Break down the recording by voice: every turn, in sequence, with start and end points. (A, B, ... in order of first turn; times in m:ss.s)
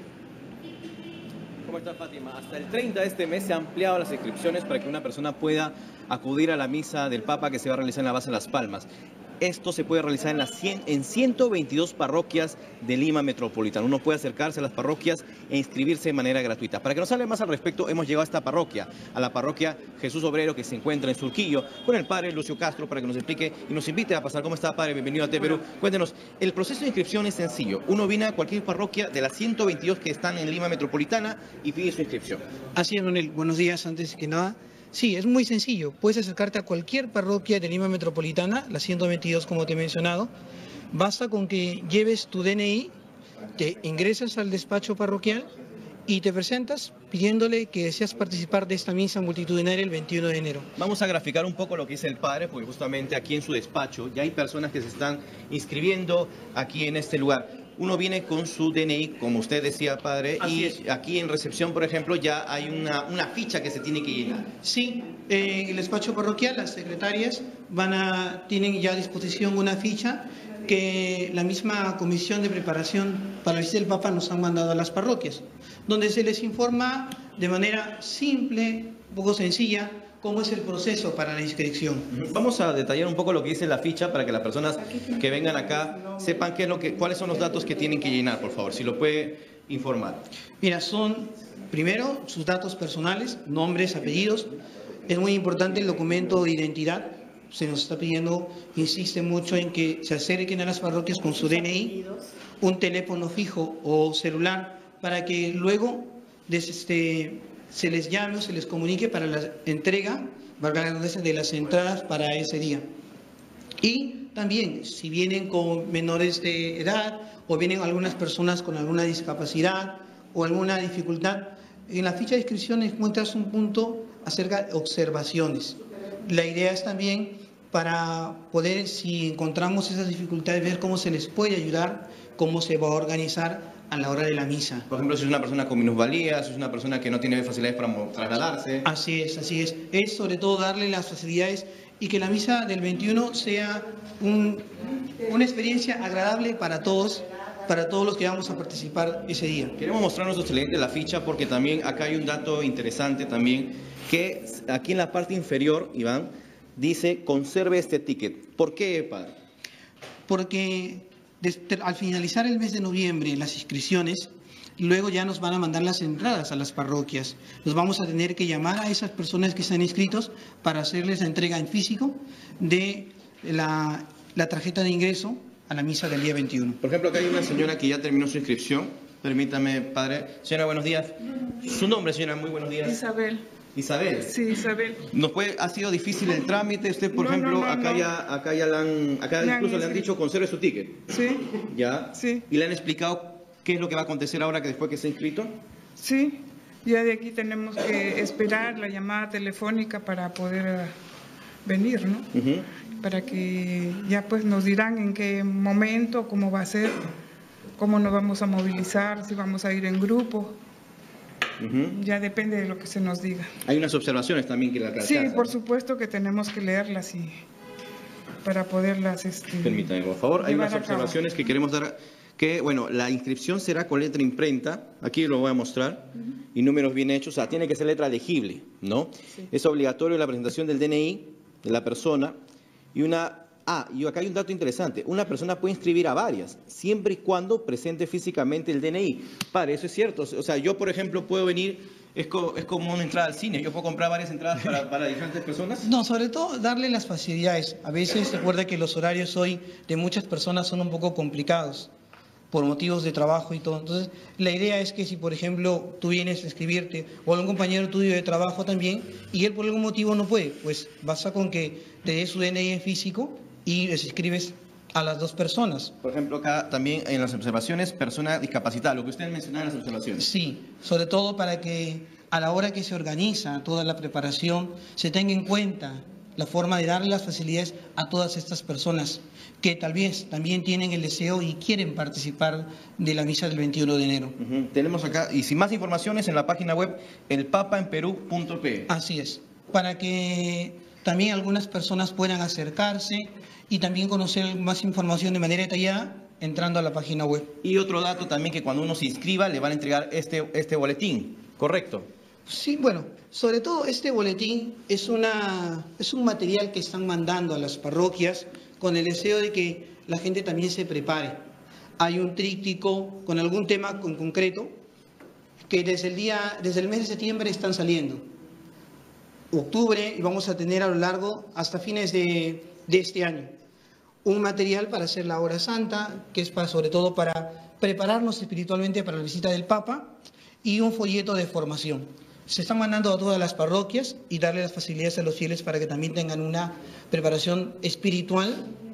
0:01.6-0:08.9 A
0:09.4-0:32.4 A
0:32.7-0:40.3 B
0:40.9-0:42.9 B
0:43.6-0:45.5 B
0:46.1-0:50.7 B
0:50.8-1:04.5 A
1:04.6-1:22.1 B
1:22.1-1:30.2 A
1:30.6-1:34.6 B
1:35.1-1:52.8 B
1:53.8-2:14.9 B
2:14.9-2:18.8 A
2:18.8-2:24.6 B
2:25.2-2:29.7 B
2:29.8-2:39.3 A
2:40.3-2:56.8 B
2:56.8-3:03.0 A
3:02.8-3:03.4 C
3:03.7-3:04.3 A
3:04.2-3:05.0 C
3:05.1-3:15.5 A
3:07.1-3:08.1 C
3:09.4-3:10.1 C
3:11.1-3:11.5 C
3:12.1-3:12.4 C
3:16.0-3:20.9 C
3:21.6-3:22.3 C
3:22.3-3:22.7 A
3:23.0-3:27.1 C
3:27.8-3:30.6 C
3:31.6-3:32.0 A
3:31.9-3:33.5 C
3:33.6-3:35.5 A
3:35.0-3:37.4 C
3:38.4-3:41.2 C
3:39.6-3:52.4 A
3:52.9-4:05.9 A
4:05.8-4:11.9 B
4:12.5-4:25.9 B
4:26.0-4:30.2 A
4:30.2-4:44.4 B
4:44.4-4:48.9 A
4:48.9-4:57.5 B
4:57.6-5:02.1 A
5:02.4-5:11.4 B
5:12.0-5:14.7 B
5:15.7-5:18.2 B
5:19.5-5:23.5 B
5:24.2-5:38.7 B